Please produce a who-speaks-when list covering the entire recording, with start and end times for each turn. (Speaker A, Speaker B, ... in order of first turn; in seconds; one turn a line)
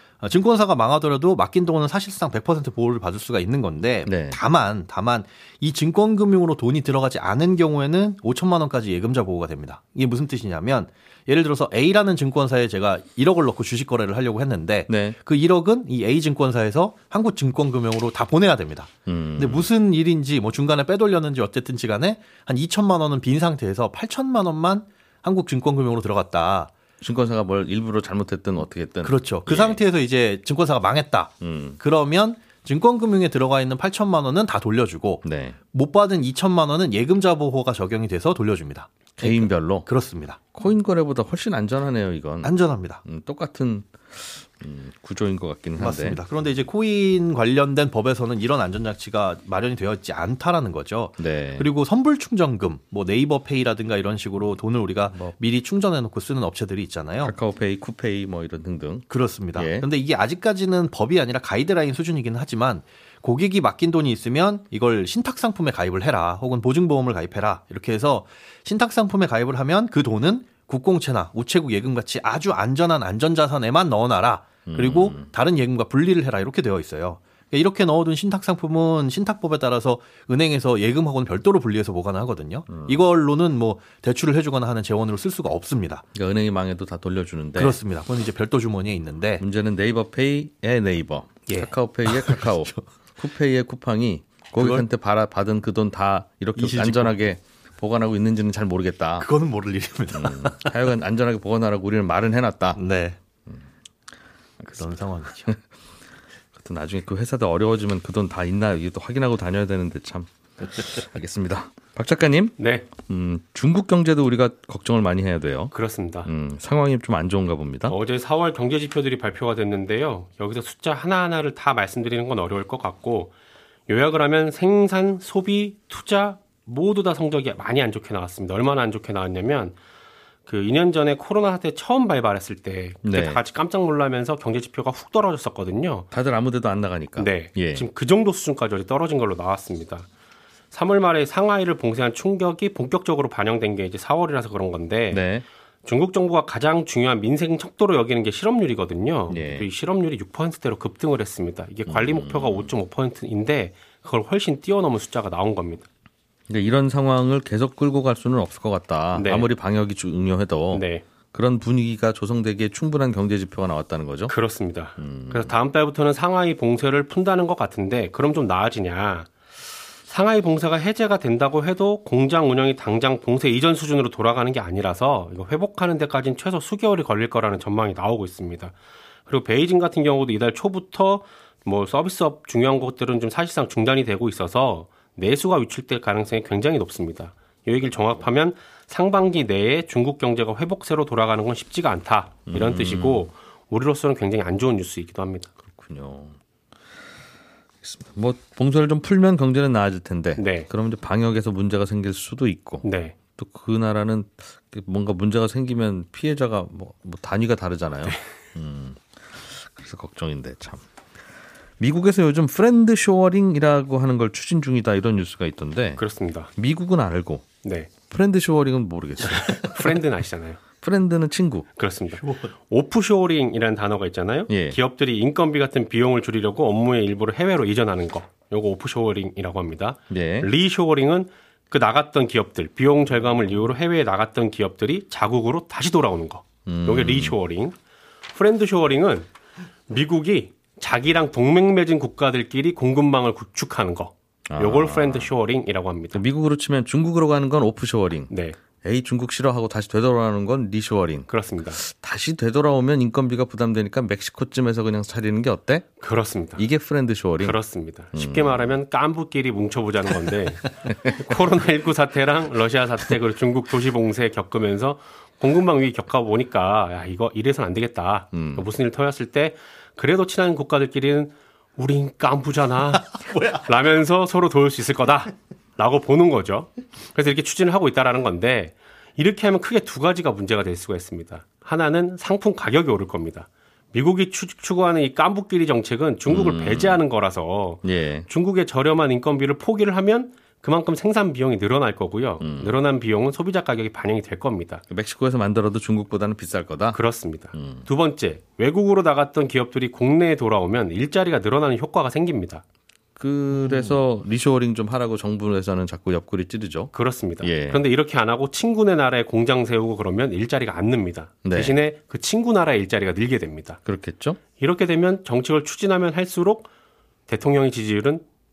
Speaker A: 0.2-26.7
Speaker B: 4.0-4.4
Speaker B: 14.9-15.2
Speaker B: 19.1-19.7
Speaker B: 27.0-29.8
Speaker A: 29.0-40.4
Speaker B: 31.4-31.8
Speaker B: 35.2-35.6
Speaker B: 39.2-39.9
Speaker B: 40.5-46.2
Speaker A: 42.4-43.0
Speaker A: 45.8-57.3
Speaker B: 51.2-51.7
Speaker B: 57.2-59.9
Speaker A: 59.1-86.0
Speaker B: 74.7-75.3
Speaker B: 86.1-87.8
Speaker A: 87.6-89.4
Speaker B: 89.4-99.3
Speaker A: 91.5-92.8
Speaker A: 94.5-94.8
Speaker A: 96.6-97.1
Speaker A: 99.2-100.7
Speaker B: 100.1-102.8
Speaker A: 102.8-103.2
Speaker A: 104.6-105.5
Speaker B: 106.5-115.7
Speaker C: 112.6-112.9
Speaker C: 115.7-116.3
Speaker B: 116.2-118.0
Speaker C: 117.9-123.3
Speaker C: 123.9-129.8
Speaker C: 130.4-136.1
Speaker B: 133.0-133.4
Speaker B: 136.1-137.9
Speaker C: 137.2-140.1
Speaker C: 140.7-145.2
Speaker B: 145.1-145.4
Speaker C: 145.8-155.9
Speaker B: 149.3-149.7
Speaker B: 151.9-152.7
Speaker B: 156.5-164.3
Speaker C: 159.1-159.5
Speaker C: 160.7-161.0
Speaker C: 164.3-169.3
Speaker B: 165.0-165.5
Speaker C: 170.1-178.7
Speaker C: 179.3-195.5
Speaker B: 192.5-193.3
Speaker B: 195.7-196.3
Speaker B: 197.8-210.8
Speaker C: 200.4-200.7
Speaker C: 202.8-203.1
Speaker B: 211.8-216.0
Speaker C: 216.0-216.5
Speaker B: 216.6-217.5
Speaker C: 217.6-217.9
Speaker B: 218.1-219.9
Speaker C: 219.3-220.6
Speaker B: 220.8-221.7
Speaker C: 221.8-237.7
Speaker B: 224.5-224.8
Speaker B: 230.1-230.5
Speaker B: 236.7-237.3
Speaker C: 238.3-239.3
Speaker C: 239.9-246.2
Speaker B: 244.5-245.3
Speaker B: 246.1-248.3
Speaker C: 248.3-248.6
Speaker B: 248.8-256.0
Speaker C: 251.3-251.8
Speaker C: 256.0-256.6
Speaker B: 256.6-257.6
Speaker C: 257.4-294.8
Speaker B: 258.1-258.8
Speaker B: 260.9-261.1
Speaker B: 268.3-268.6
Speaker B: 286.3-287.0
Speaker B: 287.8-288.3
Speaker B: 292.4-292.7
Speaker B: 294.9-297.0
Speaker C: 296.9-302.6
Speaker B: 297.5-297.8
Speaker B: 303.1-307.8
Speaker C: 303.7-303.9
Speaker C: 306.9-313.8
Speaker B: 311.4-311.8
Speaker B: 313.9-314.4
Speaker C: 314.6-316.7
Speaker C: 317.3-318.2